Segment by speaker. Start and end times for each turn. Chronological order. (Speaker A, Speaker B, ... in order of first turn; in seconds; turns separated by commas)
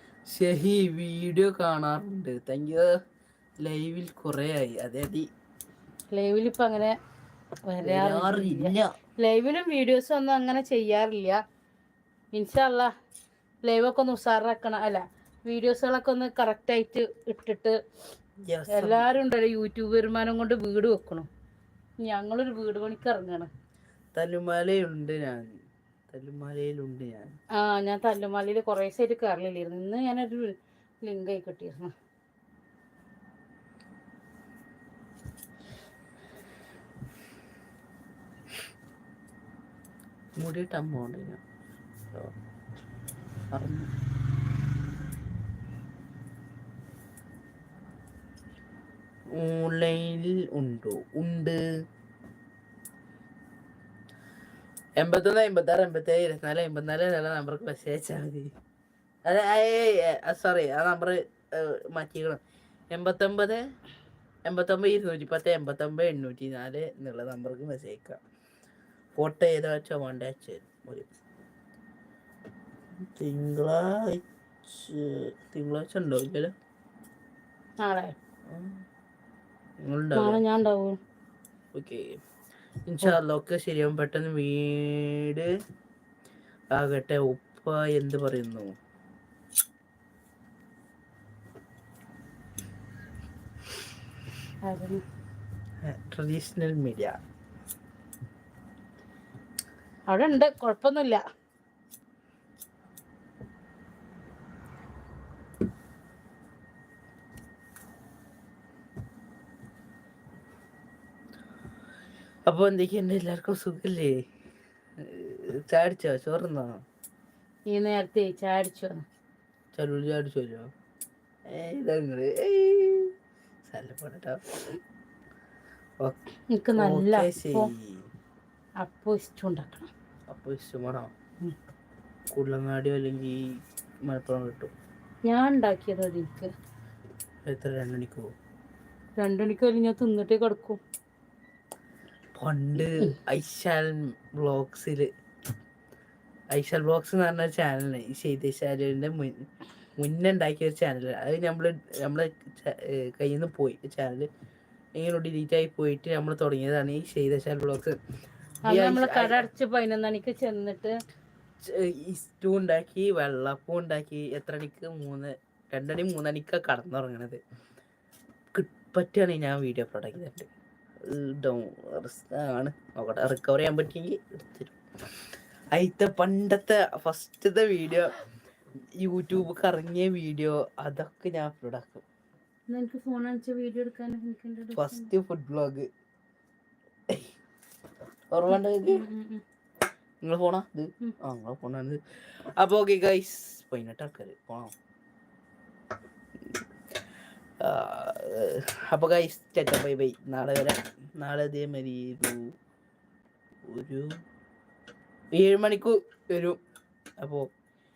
Speaker A: 0.3-3.0, Speaker A: 3.6-5.3, Speaker B: 6.1-7.0, Speaker B: 7.7-11.4, Speaker A: 7.8-8.9, Speaker B: 12.3-12.9, Speaker B: 13.6-17.8, Speaker A: 18.5-19.1, Speaker B: 18.7-21.3, Speaker B: 22.0-23.5, Speaker A: 24.1-25.5, Speaker A: 26.1-27.4, Speaker B: 27.6-31.9, Speaker A: 40.4-41.4, Speaker A: 43.5-43.9, Speaker A: 49.3-51.6, Speaker A: 55.0-58.5, Speaker A: 59.3-62.4, Speaker A: 62.9-63.7, Speaker A: 64.5-68.2, Speaker A: 69.2-71.1, Speaker A: 73.0-76.5, Speaker B: 77.8-78.2, Speaker A: 78.5-78.8, Speaker A: 79.8-80.4, Speaker B: 80.2-81.0, Speaker A: 81.7-82.2, Speaker A: 82.9-85.5, Speaker A: 86.7-88.7, Speaker B: 94.7-95.0, Speaker A: 95.8-97.2, Speaker B: 100.1-101.2, Speaker A: 112.5-114.2, Speaker A: 115.0-116.8, Speaker B: 117.7-119.0, Speaker A: 119.7-120.7, Speaker A: 121.5-123.1, Speaker A: 123.7-124.4, Speaker B: 126.5-127.7, Speaker A: 126.8-128.1, Speaker B: 128.8-129.9, Speaker A: 130.3-131.1, Speaker A: 132.3-134.7, Speaker B: 135.3-136.5, Speaker A: 137.5-138.3, Speaker B: 139.2-140.8, Speaker A: 142.3-145.1, Speaker A: 146.5-149.5, Speaker A: 150.0-154.3, Speaker A: 155.0-158.0, Speaker A: 158.7-159.4, Speaker B: 158.7-161.0, Speaker A: 161.6-167.4, Speaker A: 168.5-170.5, Speaker A: 171.0-174.8, Speaker A: 175.8-178.1, Speaker A: 179.0-182.1, Speaker B: 182.7-185.1, Speaker A: 184.8-185.9, Speaker A: 188.3-189.0, Speaker B: 188.5-189.4, Speaker A: 190.2-192.0, Speaker A: 192.6-194.7, Speaker A: 197.6-202.5, Speaker A: 203.7-204.1, Speaker A: 205.3-206.6, Speaker A: 207.2-207.5